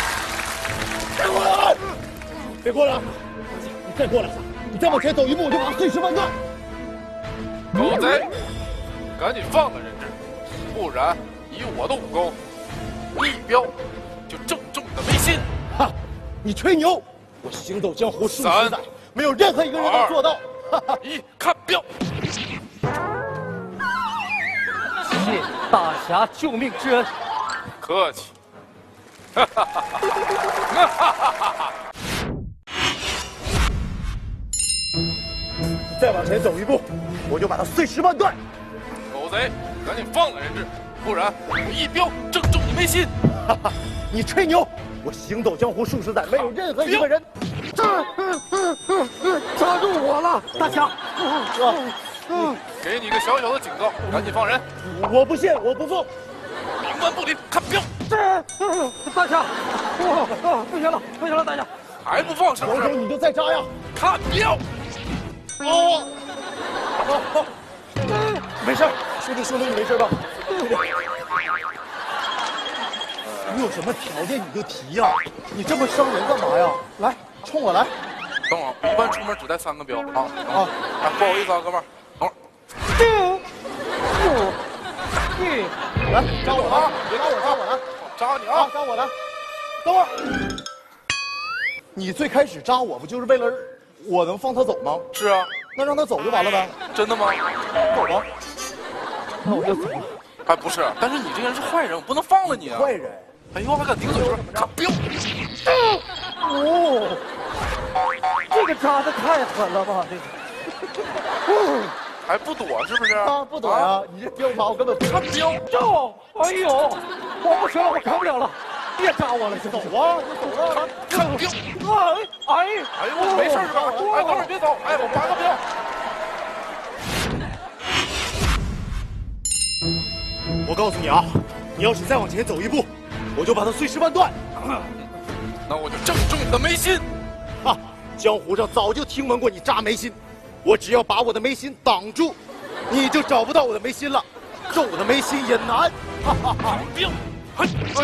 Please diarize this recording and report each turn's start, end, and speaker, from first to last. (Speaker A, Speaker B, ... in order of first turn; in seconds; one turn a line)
Speaker A: 1.1-2.0
Speaker A: 2.6-3.2
Speaker A: 3.8-6.3
Speaker B: 7.7-8.3
Speaker B: 9.2-12.4
Speaker B: 13.1-13.7
Speaker B: 14.3-15.4
Speaker A: 15.8-21.0
Speaker B: 18.3-18.8
Speaker B: 19.7-20.2
Speaker B: 21.0-21.9
Speaker C: 25.0-27.1
Speaker B: 27.8-28.3
Speaker B: 29.4-30.0
Speaker B: 30.7-31.7
Speaker A: 35.9-38.4
Speaker B: 39.1-43.1
Speaker A: 43.5-47.3
Speaker B: 46.3-47.1
Speaker C: 47.8-52.5
Speaker A: 50.5-50.9
Speaker A: 51.5-52.6
Speaker B: 52.7-54.6
Speaker A: 54.8-56.1
Speaker B: 56.8-57.9
Speaker C: 58.1-61.7
Speaker B: 62.0-63.0
Speaker A: 62.6-63.7
Speaker B: 63.9-64.6
Speaker A: 65.6-66.1
Speaker A: 67.0-67.5
Speaker A: 68.5-70.8
Speaker A: 73.4-77.9
Speaker B: 78.5-82.3
Speaker C: 83.0-83.4
Speaker C: 84.1-84.6
Speaker C: 85.3-85.7
Speaker A: 86.1-87.8
Speaker B: 86.4-88.7
Speaker A: 88.5-89.1
Speaker A: 89.8-90.1
Speaker A: 91.9-95.0
Speaker B: 95.1-95.5
Speaker A: 95.7-96.8
Speaker B: 96.9-97.4
Speaker A: 97.8-98.3
Speaker C: 99.4-100.2
Speaker B: 100.5-102.9
Speaker A: 102.5-103.3
Speaker B: 103.5-105.0
Speaker A: 104.1-104.7
Speaker C: 106.5-107.2
Speaker C: 108.5-110.3
Speaker C: 111.5-111.9
Speaker B: 112.2-113.9
Speaker A: 113.2-115.3
Speaker B: 115.1-115.6
Speaker C: 115.7-119.9
Speaker A: 119.5-120.9
Speaker B: 120.9-121.6
Speaker C: 121.0-124.5
Speaker B: 123.0-125.6
Speaker A: 123.4-124.2
Speaker A: 130.6-134.3
Speaker B: 135.7-137.1
Speaker A: 137.6-142.4
Speaker A: 142.9-146.8
Speaker B: 146.7-147.1